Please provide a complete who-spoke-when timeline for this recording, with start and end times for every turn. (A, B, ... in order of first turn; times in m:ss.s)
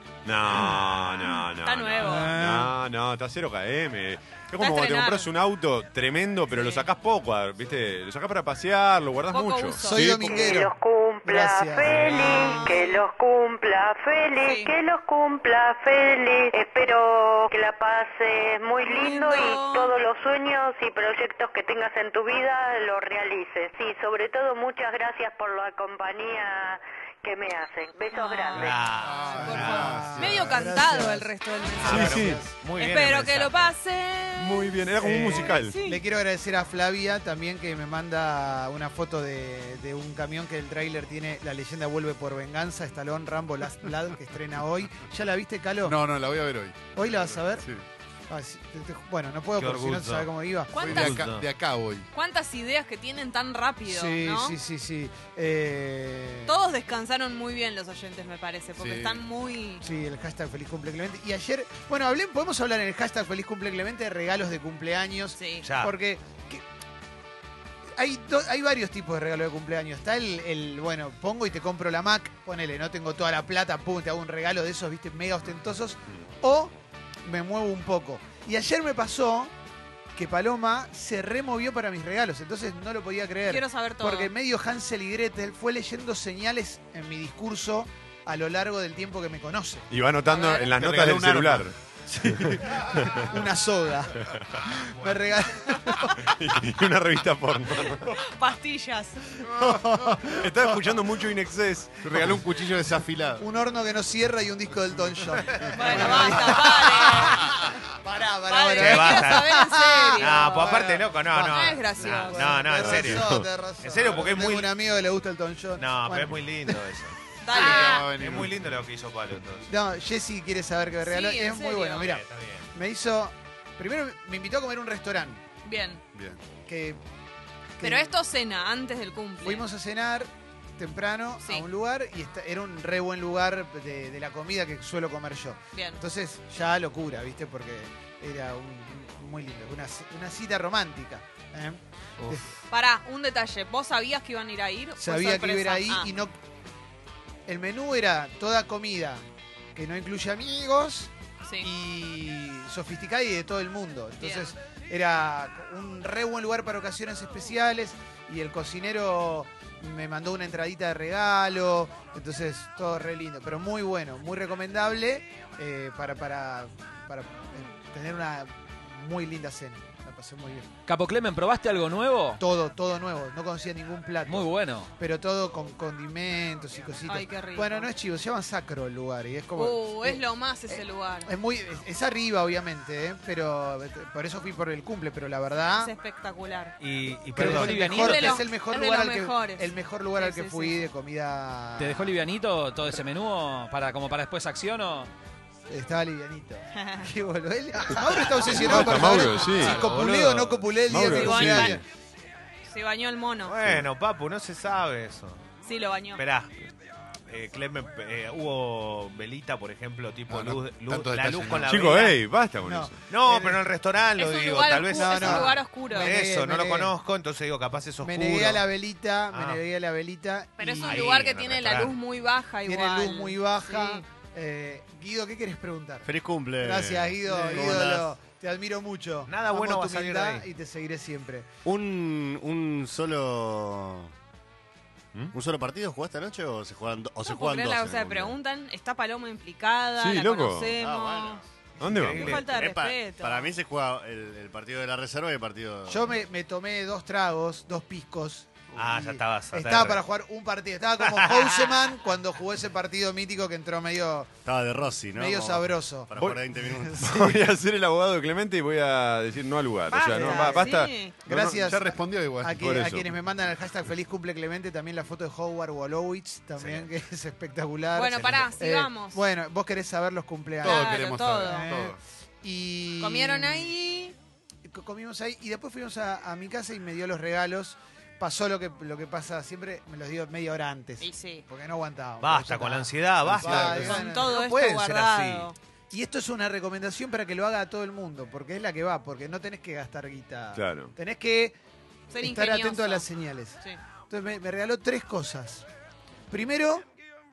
0:00.2-0:10.6 A
0:01.3-0:02.3 B
0:02.0-0:02.7 C
0:04.6-0:05.3 B
0:06.5-0:06.9 B
0:09.3-0:10.0 B
0:09.9-0:10.7 C
0:10.2-0:28.8 D
0:11.2-0:12.6 C
0:12.1-0:13.0 B
0:14.4-0:14.7 B
0:18.8-0:20.0 B
0:28.1-0:34.8 B
0:28.5-0:29.9 E
0:29.0-0:30.7 F
0:29.4-0:32.5 C
0:31.8-0:33.8 E
0:31.9-0:32.4 A
0:34.4-0:35.8 A
0:35.0-0:46.0 C
0:35.4-0:36.0 B
0:45.8-0:47.8 F
0:47.0-0:47.7 C
0:48.3-0:50.7 C
0:49.6-0:50.3 E
0:50.7-0:51.2 B
0:50.8-0:52.1 F
0:50.8-0:51.5 E
0:52.1-0:54.6 B
0:53.9-0:56.6 C
0:56.5-0:59.8 B
0:58.8-0:59.2 F
0:59.8-1:06.6 C
1:05.4-1:05.6 B
1:05.6-1:05.9 E
1:08.0-1:16.7 C
1:17.2-1:19.5 C
1:20.2-1:29.9 C
1:23.4-1:24.3 B
1:29.9-1:33.3 A
1:30.3-1:30.7 B
1:30.6-1:31.7 F
1:32.2-1:34.2 C
1:34.2-1:34.6 A
1:34.8-1:36.1 C
1:34.9-1:35.4 E
1:35.7-1:36.1 B
1:36.2-1:38.1 A
1:38.1-1:39.4 B
1:39.5-1:40.2 F
1:39.6-1:40.9 C
1:39.8-1:42.5 A
1:42.0-1:43.4 F
1:43.4-1:56.8 C
1:45.6-1:46.1 F
1:45.7-1:47.8 B
1:48.5-1:50.8 B
1:48.8-1:49.6 E
1:50.2-1:54.7 E
1:51.5-1:52.5 B
1:53.0-1:53.4 A
1:55.8-1:59.7 E
1:57.4-1:58.1 B
1:57.5-1:58.6 F
1:59.7-2:05.4 C
2:01.0-2:02.1 B
2:02.0-2:02.7 E
2:05.6-2:06.0 B
2:06.2-2:06.4 F
2:06.7-2:07.0 C
2:07.8-2:08.1 C
2:07.8-2:09.7 B
2:09.4-2:22.5 C
2:15.7-2:16.0 B
2:22.7-2:26.1 B
2:25.0-2:26.4 C
2:27.5-2:29.2 C
2:29.8-2:50.7 C
2:34.2-2:34.5 B
2:50.9-2:52.4 G
2:52.4-3:05.9 C
2:54.3-2:54.9 G
2:57.1-2:57.9 B
2:59.6-3:01.3 B
3:05.8-3:06.8 B
3:06.8-3:08.3 E
3:07.0-3:08.3 G
3:07.4-3:12.1 C
3:07.4-3:10.8 B
3:11.8-3:15.1 G
3:15.7-3:21.8 C
3:16.8-3:17.1 B
3:18.4-3:20.0 A
3:18.6-3:20.7 E
3:20.9-3:21.8 A
3:21.0-3:21.8 B
3:22.7-3:23.5 B
3:23.4-3:25.4 E
3:25.6-3:26.2 B
3:26.2-3:26.6 E
3:27.3-3:32.2 E
3:30.3-3:31.9 F
3:31.7-3:32.9 A
3:32.6-3:33.6 C
3:33.1-3:38.6 E
3:34.2-3:36.1 B
3:34.9-3:36.9 C
3:38.0-3:41.0 C
3:39.3-3:39.6 E
3:40.6-3:44.0 B
3:40.8-3:42.0 E
3:42.6-3:51.5 C
3:46.0-3:48.0 H
3:47.3-3:48.1 E
3:49.3-3:50.5 E
3:51.6-3:54.1 H
3:55.3-3:58.4 H
3:57.2-4:01.4 B
4:00.0-4:00.8 A
4:00.8-4:06.2 H
4:01.8-4:02.4 E
4:01.8-4:02.4 A
4:02.0-4:03.5 B
4:05.9-4:14.3 C
4:08.8-4:10.0 E
4:11.0-4:11.8 E
4:14.4-4:17.0 H
4:15.2-4:17.4 C
4:17.0-4:21.6 A
4:19.9-4:21.1 B
4:20.1-4:33.8 C
4:21.5-4:22.6 F
4:22.6-4:23.1 A
4:26.6-4:26.9 E
4:28.0-4:29.2 B
4:28.2-4:28.5 E
4:30.6-4:32.0 F
4:30.6-4:31.7 B
4:33.0-4:34.2 B
4:34.7-4:44.4 C
4:41.0-4:41.4 B
4:42.2-4:45.5 E
4:43.3-4:43.8 F
4:43.7-4:45.6 B
4:45.9-4:51.6 C
4:50.6-4:50.9 A
4:52.1-4:53.0 B
4:52.2-4:55.6 C
4:56.3-4:56.9 C